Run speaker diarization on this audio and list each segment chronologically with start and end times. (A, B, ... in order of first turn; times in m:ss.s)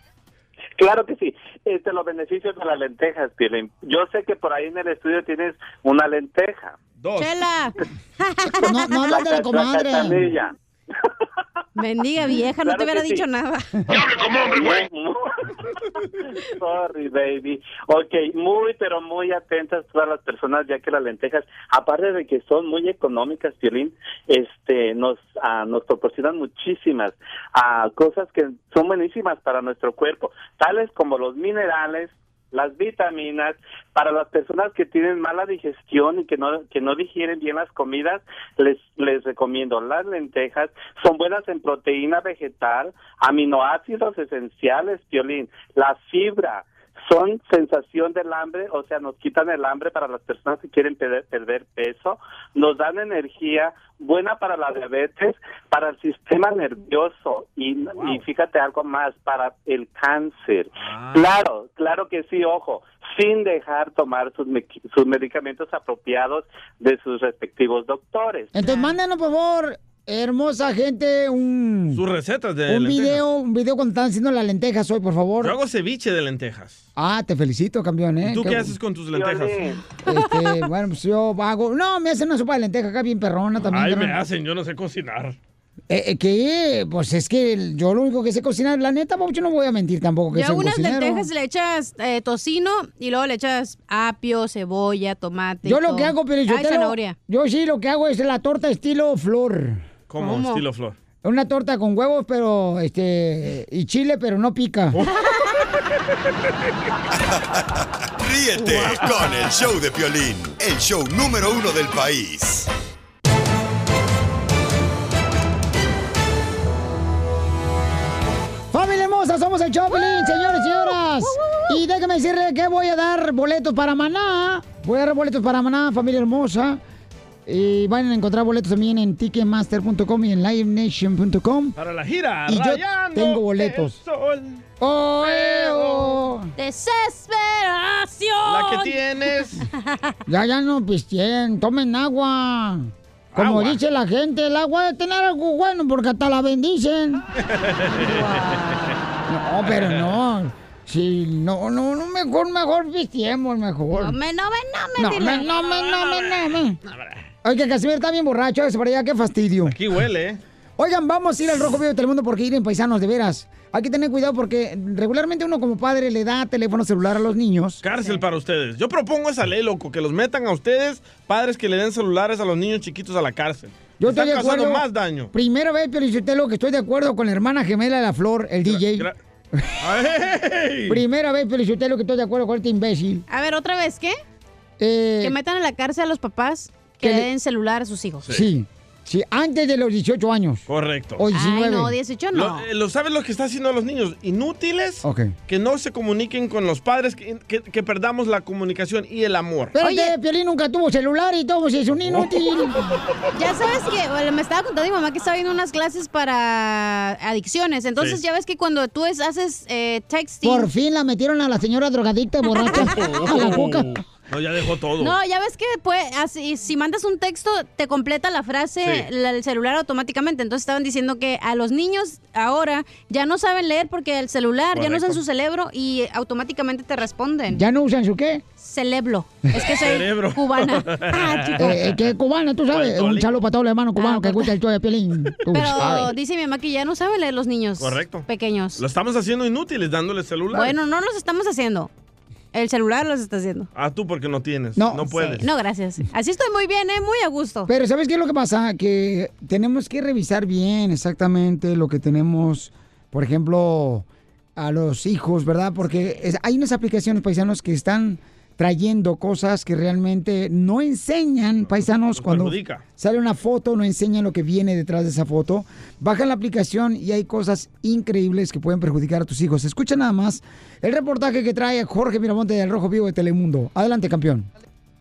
0:00.8-0:06.8 A
0:07.0-0:07.4 B
0:07.2-0:09.2 C
0:08.6-0:10.3 D
0:09.0-0:10.5 A
0:11.8-0:13.8 C
0:12.6-0:13.2 A
0:13.9-0:15.2 A
0:16.4-1:08.5 A
0:57.9-0:58.2 B
1:00.8-1:01.4 B
1:08.5-1:12.0 D
1:08.6-1:08.9 C
1:11.9-1:13.2 B
1:12.7-1:15.6 D
1:15.4-1:16.8 B
1:17.0-1:18.7 D
1:18.2-1:19.6 B
1:19.1-1:19.8 A
1:20.0-1:24.2 D
1:20.1-1:20.6 C
1:23.7-1:25.4 B
1:25.9-1:31.3 D
1:30.3-1:37.2 C
1:35.6-1:39.8 D
1:40.1-1:41.0 B
1:40.2-1:40.6 C
1:41.2-1:45.0 D
1:47.1-1:52.7 E
1:58.7-2:06.8 D
1:59.9-2:01.8 C
2:07.4-2:11.8 D
2:11.8-2:14.6 B
2:12.5-2:14.0 D
2:14.8-2:16.5 D
2:15.2-2:16.2 B
2:16.6-2:19.0 C
2:18.4-2:19.7 B
2:19.7-2:20.1 C
2:20.3-2:27.2 D
2:23.3-2:23.8 B
2:27.4-2:28.9 B
2:28.0-2:29.0 C
2:29.3-2:34.1 D
2:29.7-2:30.0 B
2:33.9-2:36.3 C
2:35.0-2:36.8 D
2:36.9-2:37.2 B
2:37.4-2:39.8 D
2:39.6-2:40.4 B
2:40.8-2:47.8 D
2:47.8-2:55.3 B
2:54.0-2:59.7 D
2:58.6-2:59.2 B
2:59.8-3:01.0 B
3:00.9-3:03.2 D
3:03.3-3:04.2 C
3:04.8-3:05.3 D
3:05.2-3:08.3 C
3:07.0-3:07.3 D
3:08.3-3:10.6 D
3:10.7-3:11.2 B
3:11.2-3:11.9 D
3:11.3-3:12.7 C
3:12.3-3:19.7 B
3:15.0-3:15.3 D
3:19.7-3:22.8 D
3:19.8-3:20.1 C
3:22.0-3:22.3 B
3:23.3-3:30.7 C
3:30.4-3:34.0 D
3:32.6-3:32.8 C
3:32.8-3:35.2 B
3:35.0-3:47.6 C
3:38.8-3:39.1 B
3:44.7-3:45.2 B
3:47.5-3:48.4 D
3:48.6-3:51.8 C
3:49.6-3:52.1 B
3:51.6-3:56.1 D
3:52.7-3:53.3 B
3:54.0-3:54.5 C
3:55.5-3:58.8 C
3:57.8-4:00.8 B
4:00.5-4:01.9 C
4:02.5-4:03.7 C
4:03.7-4:05.5 B
4:04.8-4:05.4 D
4:05.2-4:07.7 C
4:07.7-4:14.0 D
4:14.6-4:34.5 D
4:21.6-4:22.8 B